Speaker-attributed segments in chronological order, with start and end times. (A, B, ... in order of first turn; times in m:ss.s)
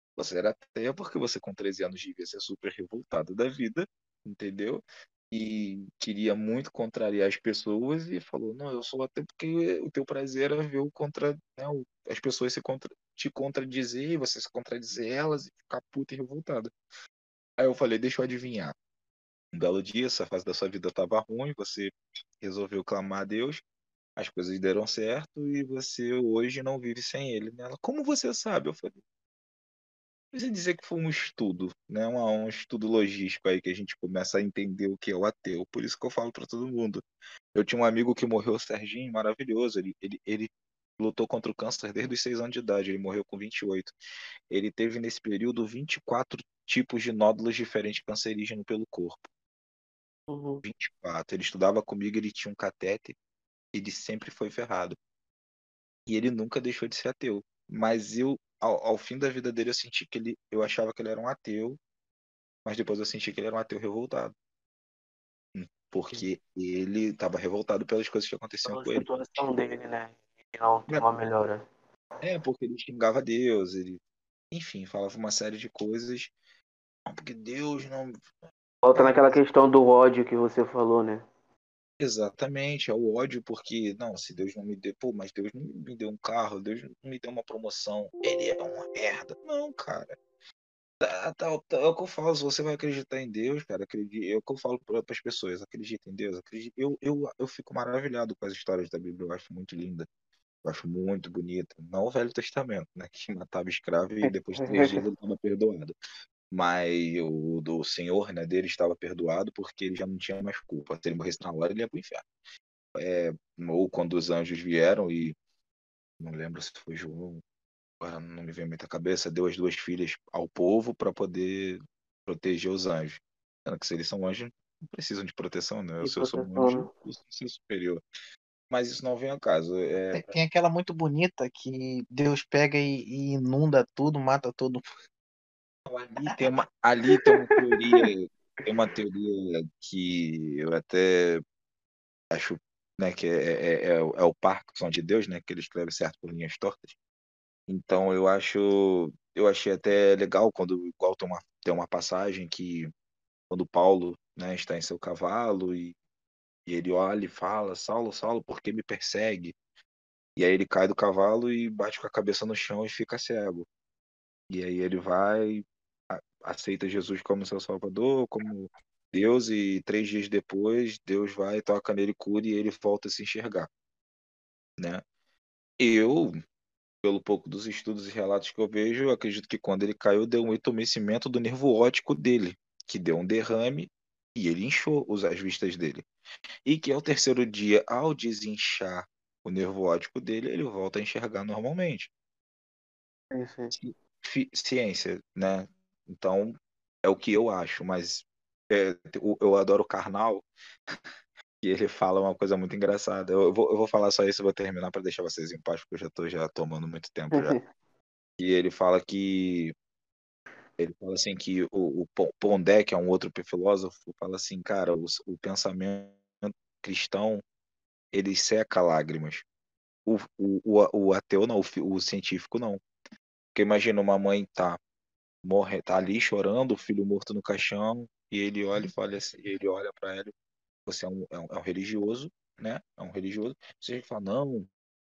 0:00.2-0:16.7 A
0:17.6-0:18.7 A
0:19.5-0:23.6 A
0:24.2-0:29.0 A
0:30.3-0:43.9 A
0:44.5-0:49.3 A
0:50.3-0:50.6 B
0:50.6-0:53.2 A
0:53.7-0:55.0 A
0:56.0-1:01.8 A
1:02.6-1:04.3 A
1:05.5-1:09.0 A
1:08.6-1:11.6 B
1:12.2-1:16.3 A
1:17.1-1:18.2 A
1:18.8-1:21.2 B
1:18.9-1:19.4 A
1:22.0-1:30.2 A
1:31.0-1:40.1 A
1:40.6-1:46.0 A
1:44.2-1:45.0 B
1:46.5-1:52.2 A
1:52.9-1:55.4 A
1:56.2-1:57.4 A
1:58.0-2:08.0 A
2:06.0-2:06.9 B
2:08.7-2:10.3 A
2:10.1-2:14.8 C
2:15.8-2:21.4 A
2:22.3-2:26.9 A
2:27.7-2:32.9 A
2:33.5-2:36.0 A
2:36.6-2:39.6 A
2:40.4-2:43.7 A
2:44.5-2:53.7 A
2:54.8-2:55.0 A
2:55.8-2:56.3 A
2:57.0-3:06.0 A
3:06.6-3:12.1 A
3:13.3-3:13.7 B
3:13.7-3:20.5 A
3:21.6-3:27.6 A
3:27.3-3:27.6 B
3:28.4-3:29.7 A
3:30.8-3:37.4 A
3:38.1-3:39.4 A
3:40.0-3:42.8 A
3:43.5-3:44.8 A
3:45.4-3:50.3 A
3:50.8-3:54.7 A